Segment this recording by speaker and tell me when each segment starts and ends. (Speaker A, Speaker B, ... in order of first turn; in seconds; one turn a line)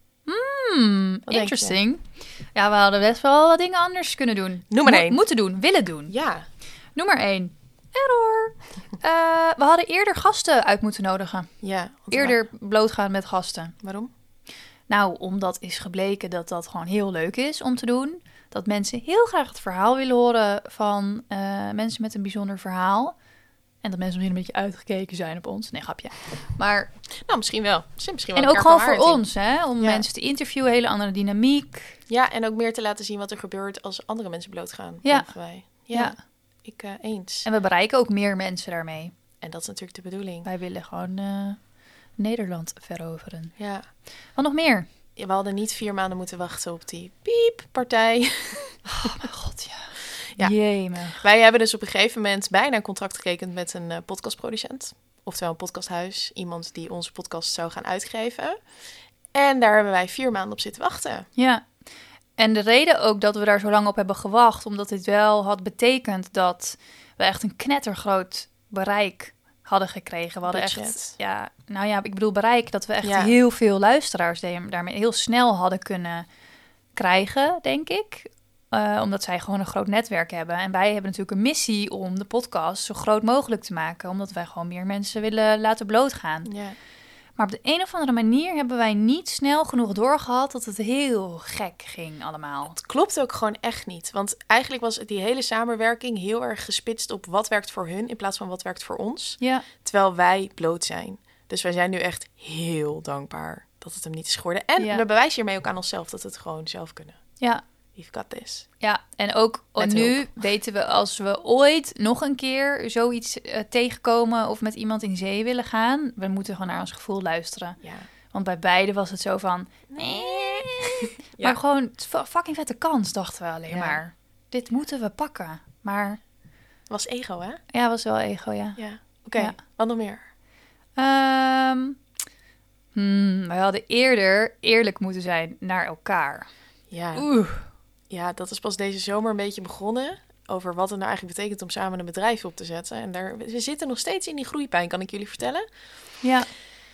Speaker A: 0.3-2.0
Speaker B: 1.3-1.8
Speaker A: 2.5-6.1
Speaker B: 4.7-5.2
Speaker B: 6.1-6.5
Speaker A: 7.0-11.5
Speaker B: 11.6-12.4
Speaker A: 12.1-13.8
Speaker B: 13.8-14.1
Speaker A: 14.9-23.1
Speaker A: 23.8-26.9
Speaker B: 27.2-29.2
Speaker A: 28.4-32.0
Speaker B: 29.8-30.1
Speaker B: 32.1-37.5
Speaker A: 35.0-35.3
Speaker A: 35.9-36.1
Speaker A: 37.5-39.1
Speaker B: 39.4-40.5
Speaker A: 40.4-41.6
Speaker A: 42.2-43.5
Speaker B: 43.6-43.9
Speaker A: 44.3-44.9
Speaker B: 45.2-49.2
Speaker A: 48.9-51.2
Speaker B: 50.3-50.6
Speaker B: 51.1-58.6
Speaker B: 59.3-61.3
Speaker A: 61.4-61.6
Speaker A: 62.4-76.3
Speaker B: 70.5-71.2
Speaker B: 73.0-73.3
Speaker A: 77.0-86.5
Speaker B: 86.4-86.8
Speaker A: 87.4-92.8
Speaker B: 92.7-107.2
Speaker A: 99.4-99.7
Speaker A: 104.8-105.0
Speaker B: 108.0-108.7
Speaker A: 108.8-117.8
Speaker B: 109.8-110.3
Speaker B: 117.8-118.1
Speaker A: 118.3-126.2
Speaker B: 119.9-121.6
Speaker B: 123.7-124.0
Speaker B: 126.9-127.6
Speaker A: 127.7-128.8
Speaker B: 128.8-130.2
Speaker A: 131.0-132.0
Speaker A: 132.9-136.5
Speaker B: 136.9-137.3
Speaker A: 137.1-137.7
Speaker B: 138.1-145.6
Speaker A: 146.2-146.5